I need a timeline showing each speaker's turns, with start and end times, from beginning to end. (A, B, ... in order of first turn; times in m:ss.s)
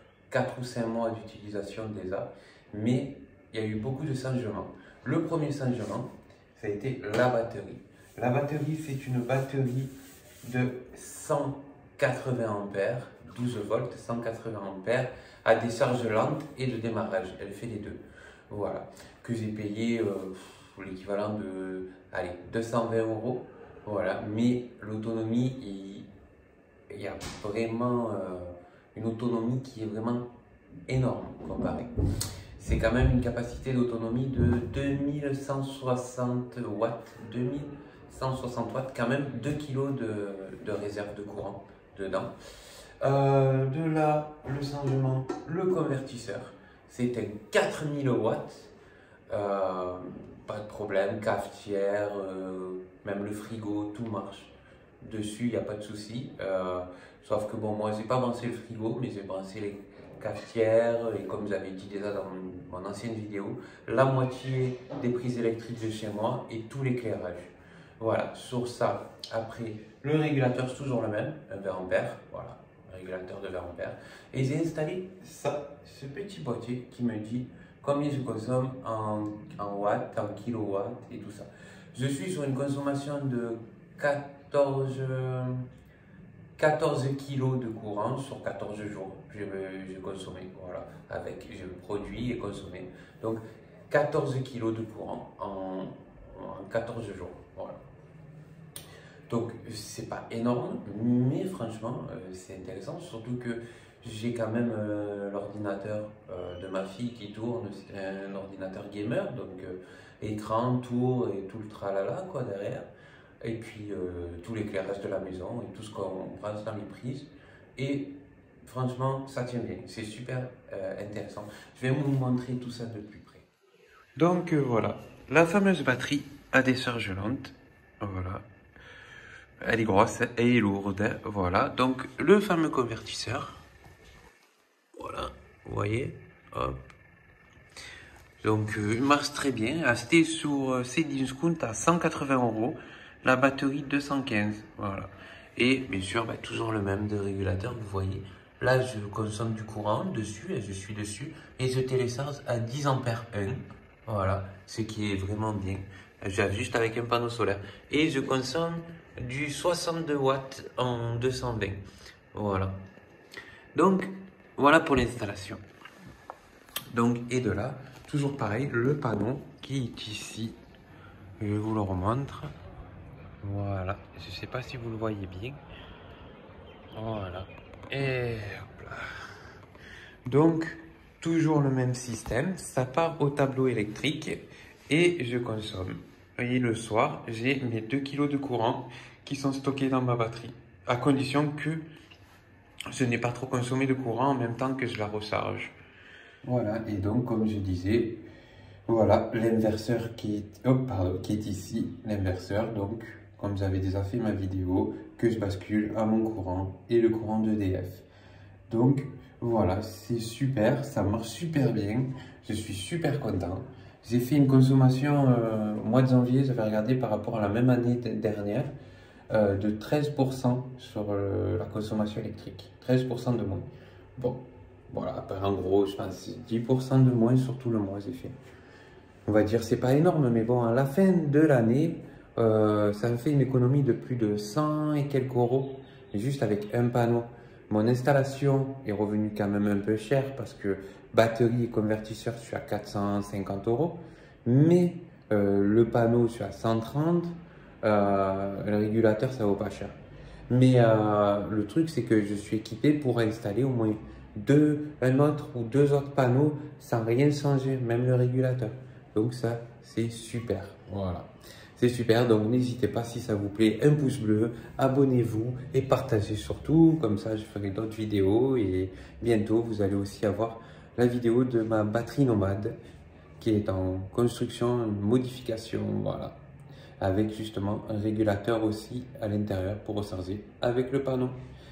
0:00.3-0:26.1 A
0:26.9-0:30.3 A
0:30.9-0:31.9 A
0:32.6-0:42.3 A
0:43.0-0:48.7 A
0:49.3-1:25.6 A
1:26.6-1:37.8 A
1:39.3-1:52.9 A
1:53.4-1:58.1 A
1:58.6-2:03.4 A
2:04.2-2:08.4 A
2:09.6-2:13.6 A
2:15.0-2:16.8 A
2:18.4-2:41.8 A
2:42.3-2:42.8 A
2:43.7-2:45.6 A
2:46.9-2:50.6 A
2:51.4-2:52.5 A
2:53.4-2:55.6 A
2:56.9-2:59.1 A
3:00.2-3:11.8 A
3:12.9-3:15.7 A
3:16.4-3:18.2 A
3:18.9-3:28.0 A
3:28.7-3:38.7 A
3:39.3-3:48.3 A
3:49.3-4:10.0 A
4:10.5-4:32.8 A
4:33.4-4:36.4 A
4:37.0-4:41.4 A